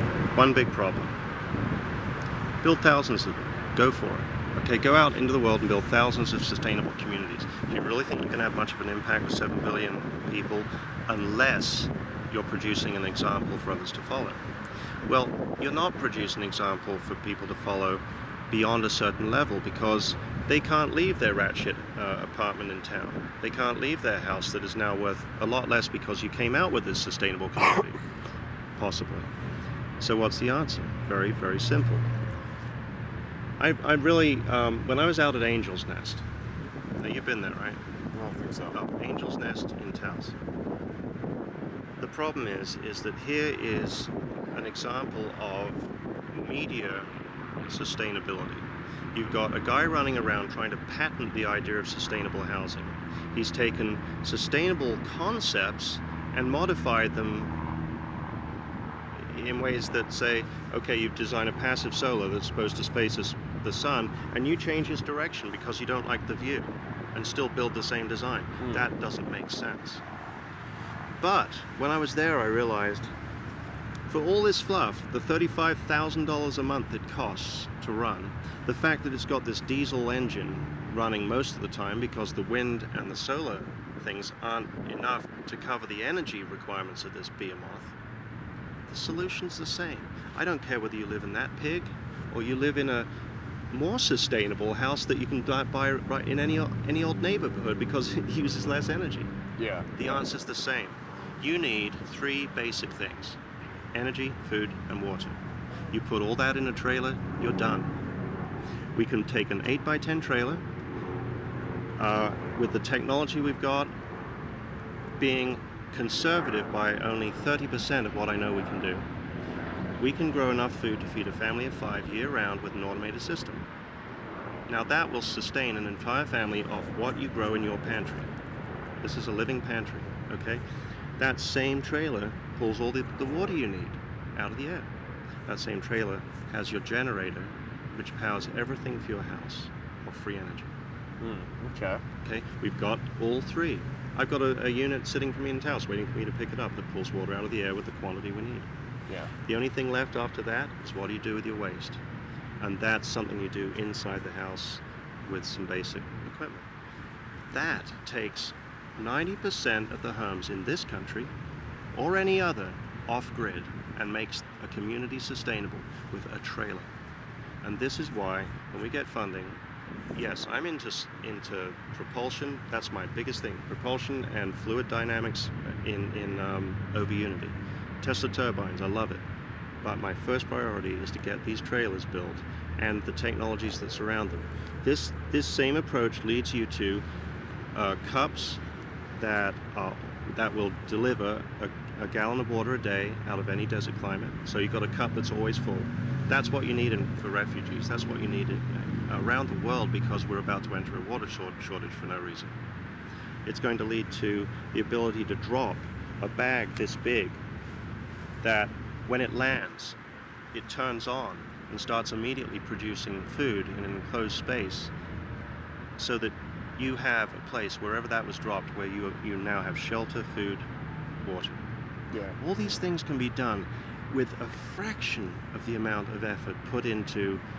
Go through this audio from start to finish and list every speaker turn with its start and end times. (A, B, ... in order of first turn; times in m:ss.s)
0:00.4-0:01.2 A
0:02.6-0:14.4 A
0:15.1-0:28.0 A
0:28.8-0:29.3 A
0:30.0-0:32.1 A
0:33.6-0:36.2 A
0:37.0-0:37.8 A
0:38.1-0:38.8 B
0:38.7-0:40.4 A
0:42.0-0:47.1 A
0:47.6-0:57.6 A
0:59.2-1:10.0 A
1:11.2-1:13.1 A
1:14.1-1:27.9 A
1:28.9-1:33.1 A
1:33.7-1:39.3 A
1:39.6-1:40.0 B
1:40.0-1:43.4 A
1:43.9-1:45.4 A
1:45.9-1:47.9 A
1:49.0-1:50.6 A
1:52.0-1:53.9 A
1:55.2-1:59.1 A
2:00.0-2:03.7 A
2:04.7-2:08.3 A
2:09.0-2:10.6 A
2:11.2-2:14.9 A
2:15.5-2:20.7 A
2:21.2-2:22.0 B
2:22.2-2:28.7 A
2:29.4-2:32.0 A
2:32.6-2:36.7 A
2:37.5-2:41.3 A
2:41.9-2:46.9 A
2:47.6-2:49.6 A
2:50.2-2:59.2 A
2:59.8-3:07.0 A
3:07.7-3:08.6 A
3:09.1-3:22.6 A
3:23.5-3:27.4 A
3:28.4-3:30.0 A
3:30.5-3:34.9 A
3:36.0-3:40.7 A
3:41.2-3:41.6 A
3:42.1-3:42.4 B
3:42.4-3:47.4 A